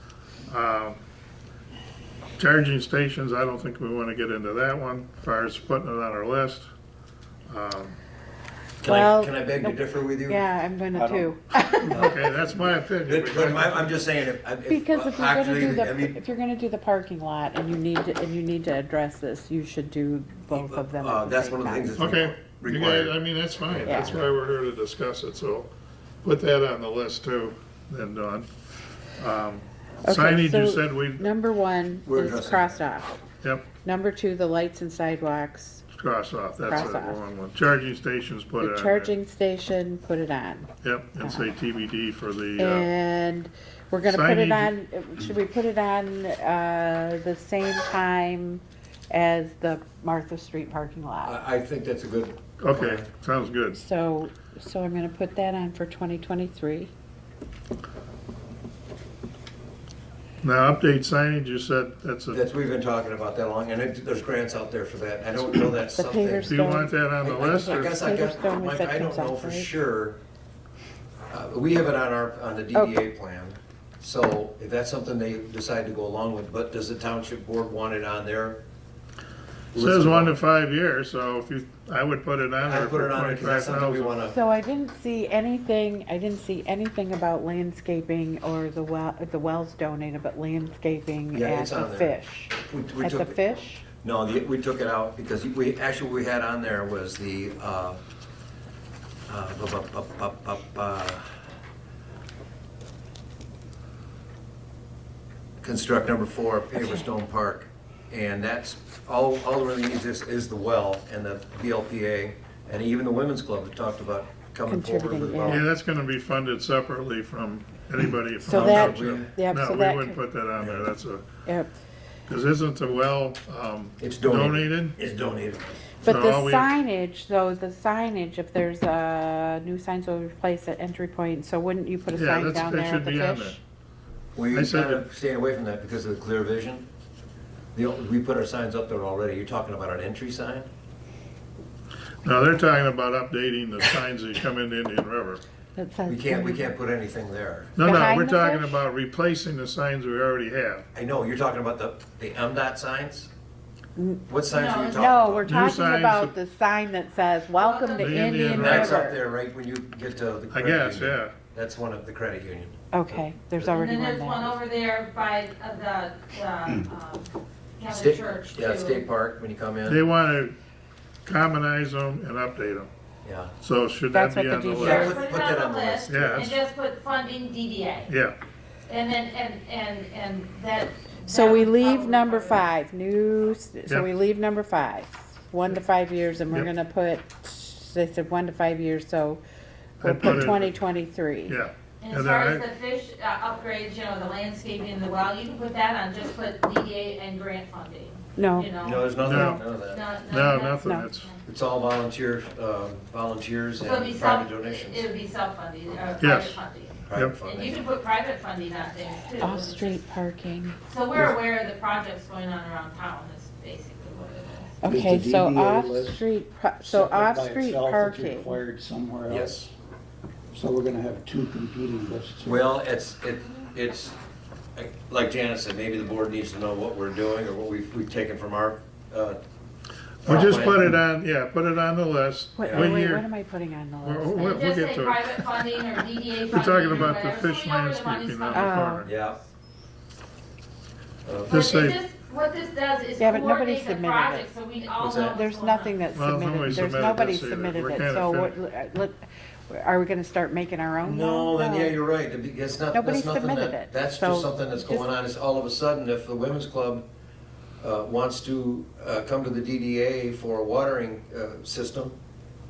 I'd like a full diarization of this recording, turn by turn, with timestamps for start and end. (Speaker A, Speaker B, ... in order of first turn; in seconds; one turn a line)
Speaker A: 0.5-1.0
Speaker A: 2.4-6.7
Speaker A: 7.5-8.0
Speaker B: 8.8-10.4
Speaker C: 8.8-12.1
Speaker D: 10.9-11.9
Speaker B: 11.9-12.2
Speaker A: 11.9-14.0
Speaker B: 13.1-16.2
Speaker C: 14.7-22.0
Speaker B: 20.5-23.1
Speaker A: 22.0-25.7
Speaker B: 23.7-24.3
Speaker A: 26.2-28.5
Speaker A: 29.2-31.3
Speaker C: 30.0-33.2
Speaker B: 32.0-32.8
Speaker C: 33.8-35.9
Speaker A: 35.9-39.1
Speaker C: 36.6-37.2
Speaker C: 38.6-41.5
Speaker A: 40.8-42.9
Speaker C: 42.6-51.4
Speaker A: 44.1-44.7
Speaker B: 51.2-53.1
Speaker A: 52.6-53.8
Speaker C: 53.7-56.9
Speaker A: 60.4-62.4
Speaker B: 62.3-66.6
Speaker C: 65.9-69.7
Speaker A: 66.5-68.0
Speaker B: 67.2-70.2
Speaker B: 71.3-78.6
Speaker C: 72.7-73.0
Speaker B: 79.7-80.3
Speaker A: 79.8-84.1
Speaker B: 82.6-84.4
Speaker C: 84.3-93.8
Speaker B: 91.3-93.4
Speaker B: 94.0-98.0
Speaker B: 99.3-101.4
Speaker B: 105.6-115.6
Speaker C: 106.8-107.0
Speaker C: 114.7-115.7
Speaker A: 115.5-121.2
Speaker C: 118.4-120.2
Speaker B: 118.5-119.3
Speaker B: 120.6-120.9
Speaker C: 121.5-121.7
Speaker A: 122.3-124.9
Speaker B: 124.0-125.8
Speaker C: 126.0-133.6
Speaker A: 126.1-126.7
Speaker A: 132.1-133.6
Speaker B: 134.3-136.9
Speaker A: 134.5-135.0
Speaker B: 137.7-140.7
Speaker A: 142.2-145.4
Speaker C: 145.8-146.7
Speaker B: 146.1-147.7
Speaker A: 147.8-150.9
Speaker C: 147.8-148.8
Speaker B: 150.9-153.3
Speaker C: 154.0-154.2
Speaker B: 154.3-155.7
Speaker E: 154.5-155.0
Speaker C: 154.8-159.2
Speaker A: 155.5-156.3
Speaker E: 157.6-158.8
Speaker A: 158.0-158.9
Speaker B: 158.5-163.2
Speaker A: 160.5-161.3
Speaker C: 162.9-164.6
Speaker E: 163.7-169.1
Speaker B: 167.9-170.0
Speaker A: 169.9-170.6
Speaker A: 171.2-172.9
Speaker B: 173.2-173.5
Speaker A: 173.6-175.1
Speaker C: 174.1-175.2
Speaker B: 174.8-176.6
Speaker E: 174.8-178.1
Speaker A: 176.1-176.6
Speaker A: 178.1-178.4
Speaker E: 178.9-182.6
Speaker C: 181.3-189.4
Speaker C: 190.0-191.6
Speaker A: 190.0-190.7
Speaker A: 191.5-192.6
Speaker E: 192.0-199.2
Speaker C: 198.4-199.6
Speaker B: 198.8-200.1
Speaker A: 199.2-199.6
Speaker E: 199.9-201.4
Speaker A: 200.2-201.3
Speaker B: 201.4-205.1
Speaker E: 203.8-210.0
Speaker A: 206.2-206.6
Speaker B: 207.1-207.9
Speaker C: 209.4-210.8
Speaker E: 210.9-214.7
Speaker C: 214.8-218.6
Speaker D: 214.8-216.3
Speaker D: 216.8-219.7
Speaker B: 219.3-219.7
Speaker D: 220.5-222.7
Speaker B: 222.4-224.2
Speaker B: 224.8-229.4
Speaker B: 230.2-230.8
Speaker A: 230.2-233.3
Speaker C: 232.6-234.7
Speaker B: 232.7-232.9
Speaker A: 234.0-235.4
Speaker E: 234.5-238.9
Speaker A: 236.5-239.1
Speaker C: 238.5-239.1
Speaker B: 239.1-239.4
Speaker B: 241.2-241.5
Speaker A: 241.5-242.0
Speaker E: 241.5-246.0
Speaker C: 243.2-244.5
Speaker B: 245.0-245.4
Speaker C: 245.3-252.0
Speaker A: 246.2-248.5
Speaker B: 251.0-257.1
Speaker C: 252.9-255.1
Speaker B: 257.8-262.2